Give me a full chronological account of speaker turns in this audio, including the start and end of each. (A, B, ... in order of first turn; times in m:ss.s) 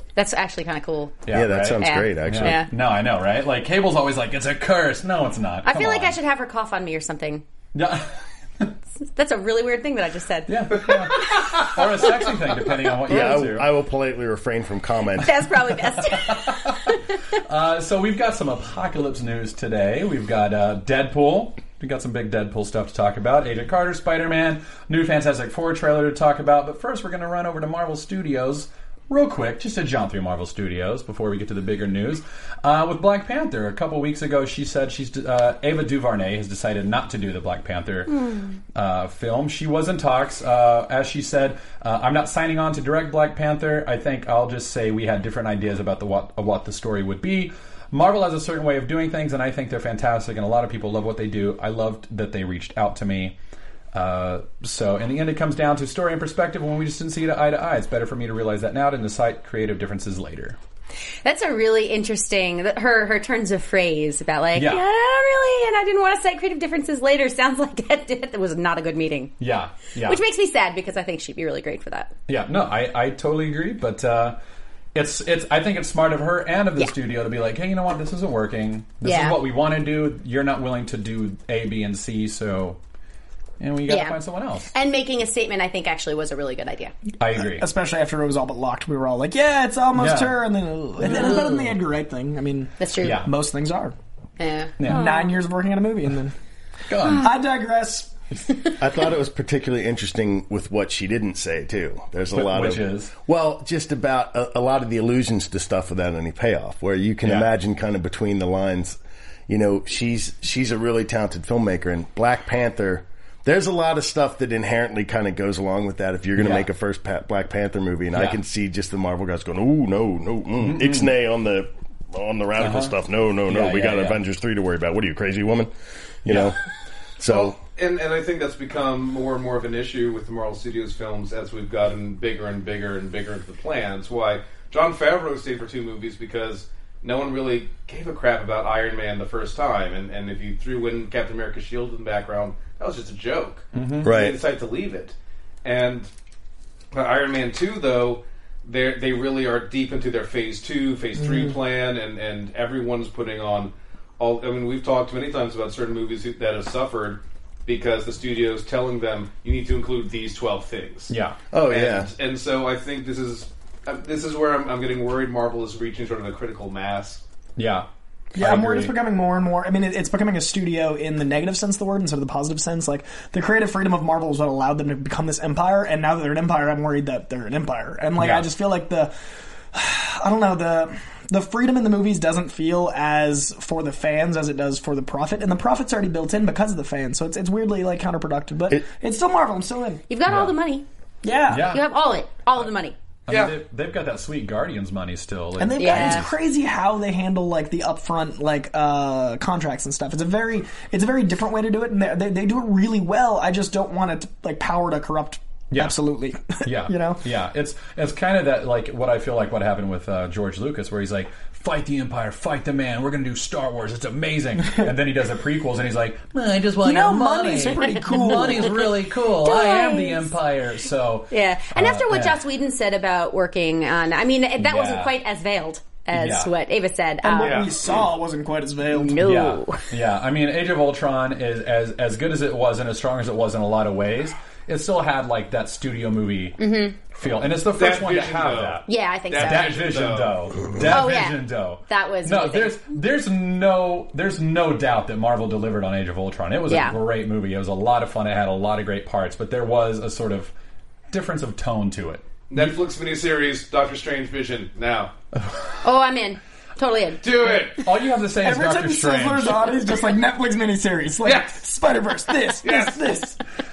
0:00.2-0:01.2 A
0:01.3-0:06.2 B
0:01.3-0:02.6 C
0:01.8-0:02.7 A
0:05.6-0:07.4 A
0:07.7-0:08.7 B
0:09.2-0:10.9 A
0:10.5-0:13.7 B
0:10.9-0:11.4 D
0:13.0-0:15.3 C
0:15.2-0:17.0 A
0:16.1-0:16.9 B
0:17.5-0:53.4 B
0:38.2-0:38.4 A
0:53.9-1:00.6 B
1:01.2-1:09.3 A
1:04.5-1:04.8 B
1:09.4-1:10.2 B
1:10.0-1:12.1 A
1:12.3-1:14.4 B
1:14.9-1:22.8 B
1:19.0-1:19.4 A
1:23.6-1:24.7 B
1:23.9-1:24.2 A
1:24.7-1:26.9 A
1:27.2-1:27.6 B
1:27.4-1:34.0 E
1:30.0-1:30.4 B
1:31.0-1:31.8 B
1:31.1-1:31.4 A
1:32.8-1:33.2 A
1:33.0-1:33.3 B
1:34.4-1:35.3 A
1:34.8-1:35.1 B
1:34.8-1:36.3 E
1:36.9-1:37.4 B
1:37.1-1:38.1 E
1:38.8-2:05.7 C
1:42.3-1:43.1 B
1:47.2-1:47.5 B
1:56.4-1:56.7 B
1:58.1-1:58.4 B
2:00.6-2:01.1 B
2:02.6-2:02.9 B
2:03.5-2:04.2 B
2:06.2-2:06.6 C
2:06.3-2:06.5 B
2:07.2-2:07.6 C
2:07.3-2:26.1 D
2:23.7-2:24.2 B
2:24.0-2:24.4 C
2:26.9-2:41.1 D
2:41.1-2:41.4 B
2:41.5-2:42.1 C
2:41.7-2:47.2 D
2:47.6-2:49.0 B
2:48.4-2:59.1 E
2:58.2-2:58.5 B
2:59.7-3:10.0 E
3:10.1-3:10.8 A
3:10.2-3:10.6 B
3:11.2-3:11.8 E
3:11.5-3:11.8 B
3:11.6-3:13.0 A
3:13.3-3:16.3 B
3:13.3-3:13.6 D
3:15.6-3:27.2 E
3:15.8-3:16.3 A
3:25.7-3:26.0 B
3:26.6-3:42.4 B
3:36.8-3:38.9 E
3:37.8-3:38.9 A
3:39.4-3:40.3 A
3:41.3-3:47.6 A
3:44.6-3:45.1 B
3:46.1-3:46.5 B
3:47.2-3:49.2 E
3:47.4-3:48.1 D
3:49.0-3:49.9 A
3:49.2-4:10.5 B
3:56.6-3:57.0 A
3:57.7-4:00.4 D
3:58.9-3:59.8 A
4:00.9-4:02.8 A
4:06.7-4:07.0 A
4:11.1-4:12.8 B
4:12.5-4:15.1 D
4:15.4-4:15.8 B
4:15.8-4:17.7 A
4:17.2-4:17.9 D
4:17.8-4:19.8 B
4:18.4-4:23.4 E
4:21.2-4:21.6 D
4:22.6-4:23.0 D